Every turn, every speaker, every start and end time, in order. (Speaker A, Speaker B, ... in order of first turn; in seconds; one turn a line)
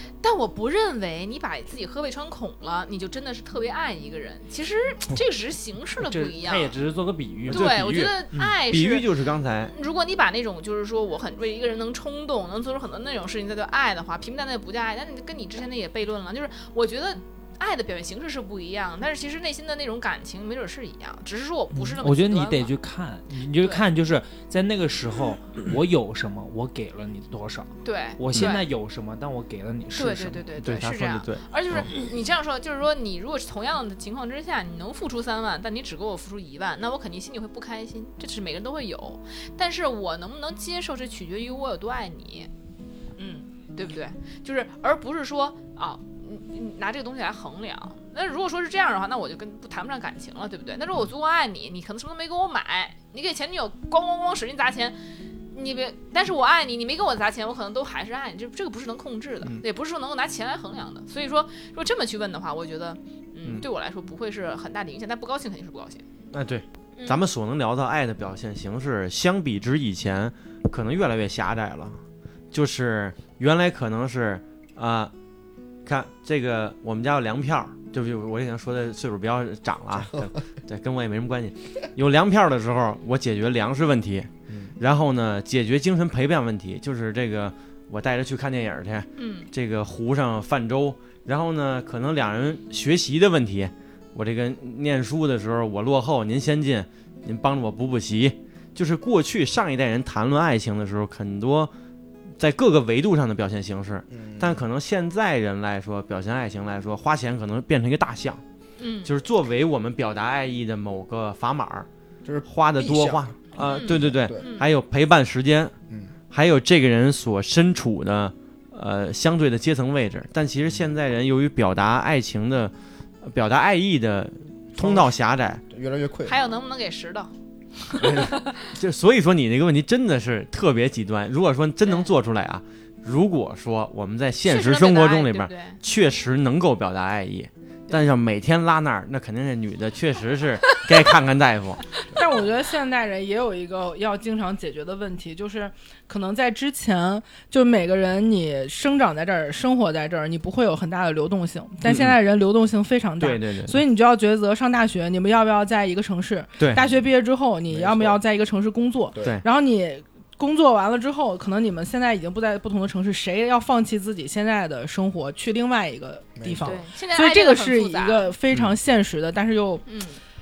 Speaker A: 0.2-6.8
Speaker B: 6.0-7.8
Speaker C: 7.5-9.7
Speaker A: 7.5-9.1
Speaker A: 9.7-22.8
Speaker B: 21.8-30.5
Speaker A: 27.8-28.6
Speaker A: 29.9-42.5
Speaker C: 30.6-31.9
Speaker D: 43.2-43.5
Speaker A: 43.7-55.0
Speaker A: 55.5-66.0
Speaker C: 66.3-72.0
Speaker A: 67.0-67.2
Speaker C: 72.5-75.1
Speaker C: 75.9-101.7
Speaker E: 84.5-84.7
Speaker A: 89.2-89.5
Speaker C: 102.4-108.4
Speaker E: 104.1-104.6
Speaker A: 108.8-109.1
Speaker C: 109.0-111.9
Speaker E: 112.2-114.5
Speaker C: 112.5-115.7
Speaker A: 113.6-114.7
Speaker C: 116.3-125.6
Speaker E: 124.8-126.5
Speaker A: 126.3-128.7
Speaker C: 128.0-141.8
Speaker A: 134.4-135.8
Speaker D: 142.1-169.8
Speaker C: 151.8-152.2
Speaker C: 153.2-153.8
Speaker C: 156.6-156.8
Speaker E: 157.7-158.2
Speaker E: 166.4-166.8
Speaker A: 166.6-168.3
Speaker C: 168.5-168.8
Speaker A: 169.9-170.2